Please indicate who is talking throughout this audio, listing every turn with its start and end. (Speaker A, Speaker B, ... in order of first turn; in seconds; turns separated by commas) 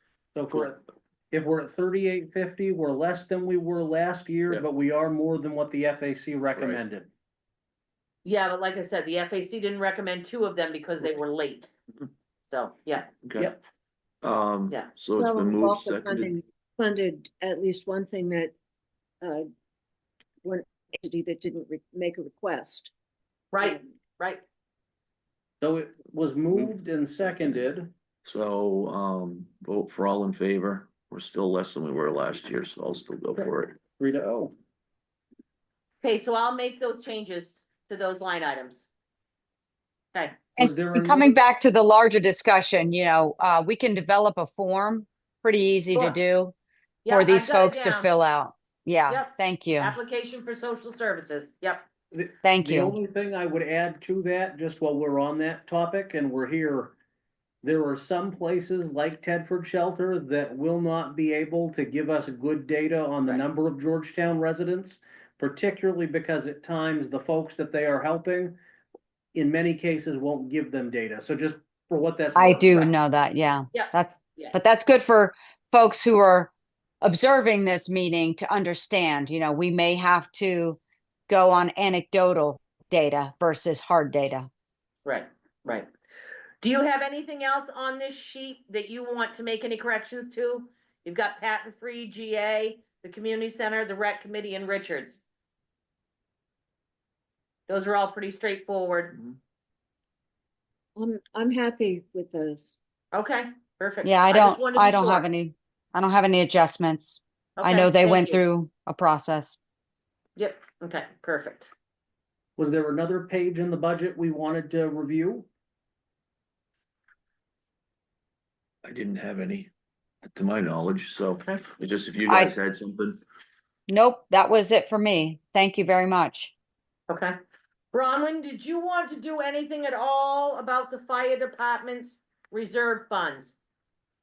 Speaker A: 0.3-7.1, Speaker B: 6.5-6.8, Speaker C: 8.2-11.7, Speaker C: 12.5-13.1, Speaker B: 13.2-13.6, Speaker B: 14.2-16.4, Speaker D: 15.2-18.5, Speaker D: 19.2-19.5, Speaker D: 20.4-22.9, Speaker C: 23.5-24.4, Speaker A: 25.6-27.9, Speaker B: 26.5-27.6, Speaker B: 28.2-33.8, Speaker A: 33.4-34.5, Speaker C: 36.0-38.9, Speaker A: 40.6-41.3, Speaker E: 40.6-46.5, Speaker C: 47.0-48.1, Speaker E: 47.1-50.0, Speaker C: 49.1-51.9, Speaker A: 52.1-57.0, Speaker E: 52.4-53.0, Speaker A: 57.6-68.6, Speaker A: 69.3-72.8, Speaker E: 72.4-76.5, Speaker C: 73.7-74.5, Speaker E: 77.0-84.5, Speaker C: 85.0-85.9, Speaker C: 86.6-95.2, Speaker C: 97.7-99.2, Speaker D: 101.0-102.7, Speaker C: 103.1-105.2, Speaker E: 104.0-109.6, Speaker C: 107.6-108.4, Speaker C: 110.4-111.7, Speaker A: 112.6-115.5, Speaker B: 118.8-119.7, Speaker B: 120.2-123.2, Speaker E: 122.3-122.5, Speaker E: 123.9-126.5, Speaker C: 127.1-127.3, Speaker C: 127.9-133.6